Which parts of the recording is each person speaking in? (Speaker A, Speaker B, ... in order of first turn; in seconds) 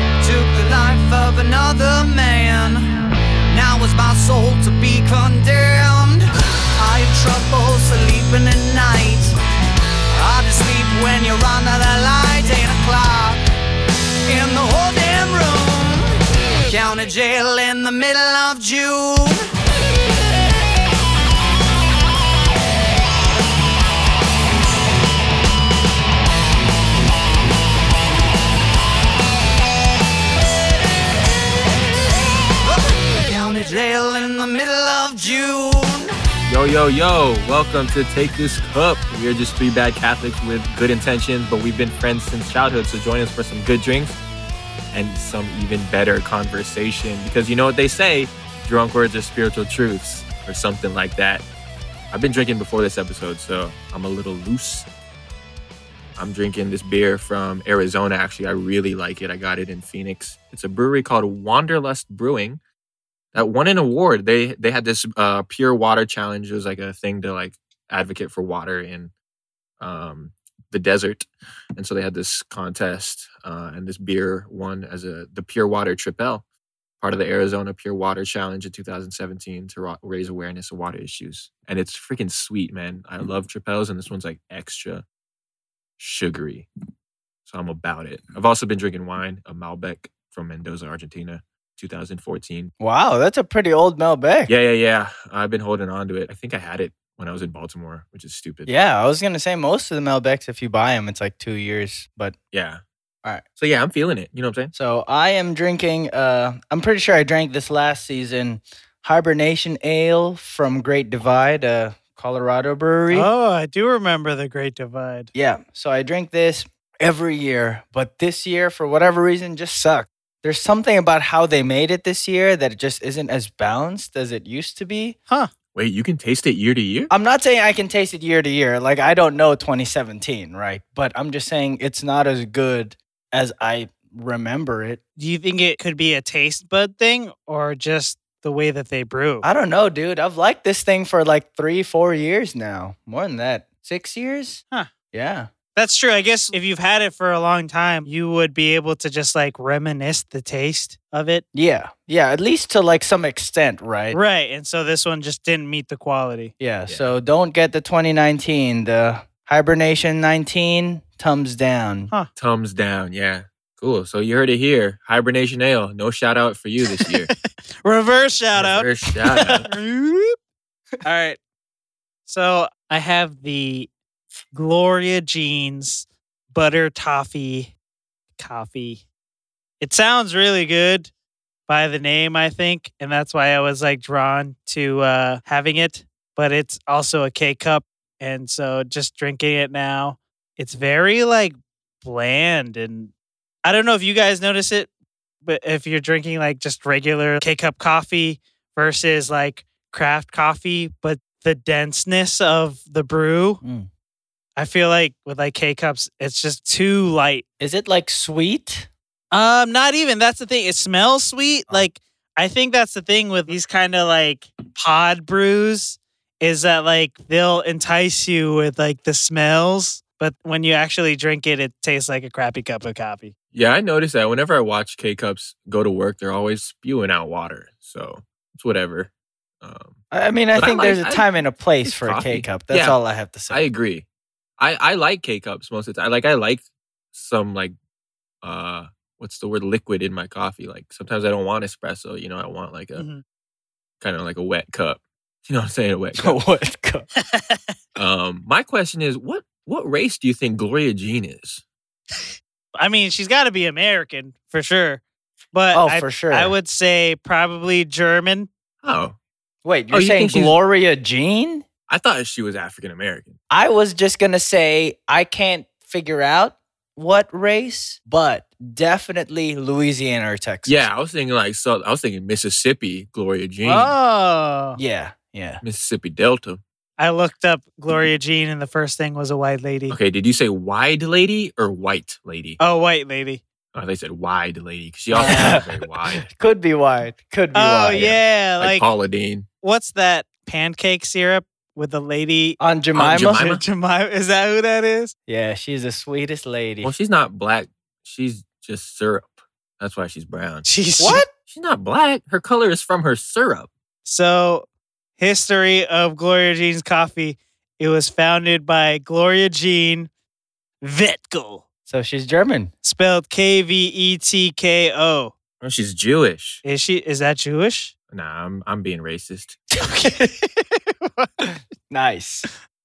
Speaker A: 0.2-6.2, 6.8-9.3, 10.1-13.4, 14.2-16.1, 16.7-19.5, 32.7-36.1
Speaker B: 36.5-44.2, 44.9-51.5, 52.1-54.9, 56.1-62.6, 63.3-69.1, 69.8-76.4, 77.0-85.0, 86.0-86.7, 87.5-92.7, 94.5-98.7, 102.5-102.8, 103.6-104.7, 125.7-127.1, 162.3-167.3, 168.5-169.7, 223.5-229.1, 229.6-230.0, 230.5-233.0, 233.5-234.0, 234.6-237.7, 238.4-243.1, 244.0-246.4, 247.9-251.6, 258.8-259.1, 259.9-260.6, 261.9-263.4, 270.6-273.9, 275.6-276.6, 279.9-282.6, 283.7-286.2, 288.1-289.4, 292.9-293.6, 296.8-300.6, 301.5-303.7, 315.6-316.6, 318.1-319.6
Speaker C: 92.8-94.5, 98.7-102.3, 104.7-113.3, 115.3-125.2, 127.1-135.0, 139.4-144.6, 145.1-145.5, 151.5-154.2, 156.6-162.1, 203.6-203.9, 207.6-208.9, 230.1-233.6, 246.2-247.1, 255.7-256.5, 259.6-261.6, 263.5-270.9, 274.8-275.6, 285.1-285.6, 286.3-288.2, 292.6-293.5, 295.3-296.9, 301.0-301.3, 311.9-312.7, 321.9-322.5
Speaker D: 113.1-115.3, 135.2-139.4, 145.7-151.4, 154.1-156.5, 167.0-170.4, 171.0-171.4, 172.3-173.9, 174.5-177.7, 178.4-179.0, 179.8-181.1, 181.7-193.1, 193.6-194.9, 195.4-203.6, 204.6-207.4, 209.3-223.3, 242.9-243.2, 247.2-247.7, 252.1-255.0, 255.5-258.5, 273.6-274.8, 277.0-280.0, 282.6-283.4, 285.2-285.5, 287.5-288.8, 289.6-295.1, 300.6-301.2, 304.0-304.6, 305.2-310.1, 310.8-311.6, 312.8-315.3, 316.6-317.9, 319.8-321.5